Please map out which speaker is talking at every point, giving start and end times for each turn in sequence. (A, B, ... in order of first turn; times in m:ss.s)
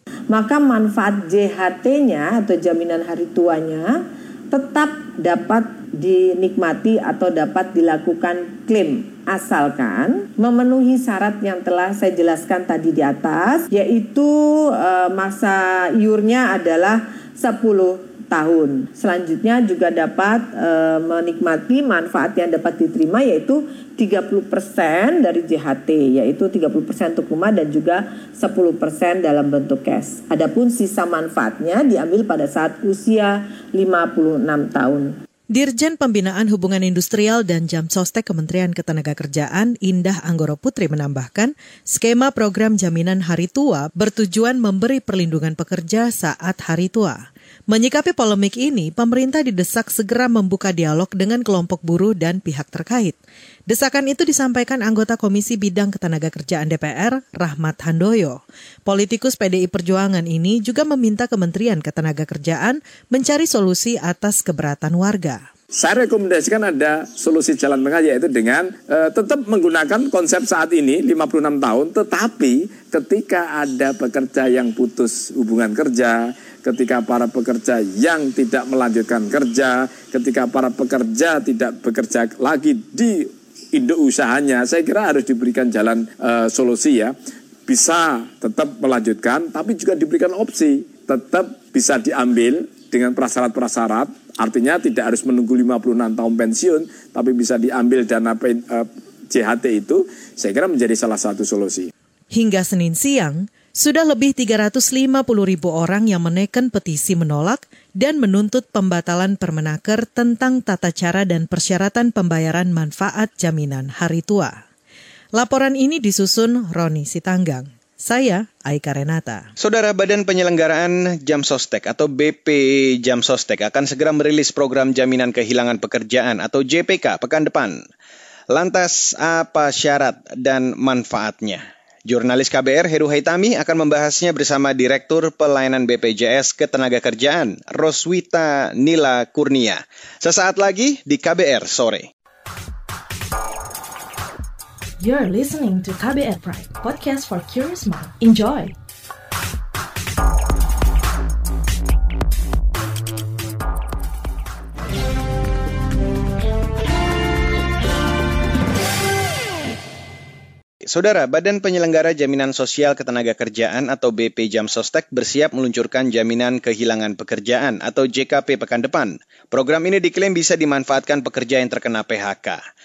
0:00.3-0:35.2 A
0:35.5-0:47.2 B
0:47.7-0:53.2 B
0:53.7-1:05.4 B
1:05.8-1:27.1 C
1:27.7-1:41.9 C
1:42.3-1:54.6 B
1:55.4-1:59.4 B
1:59.6-2:07.8 D
2:08.5-2:22.1 D
2:25.0-2:28.7 E
2:40.9-2:52.6 D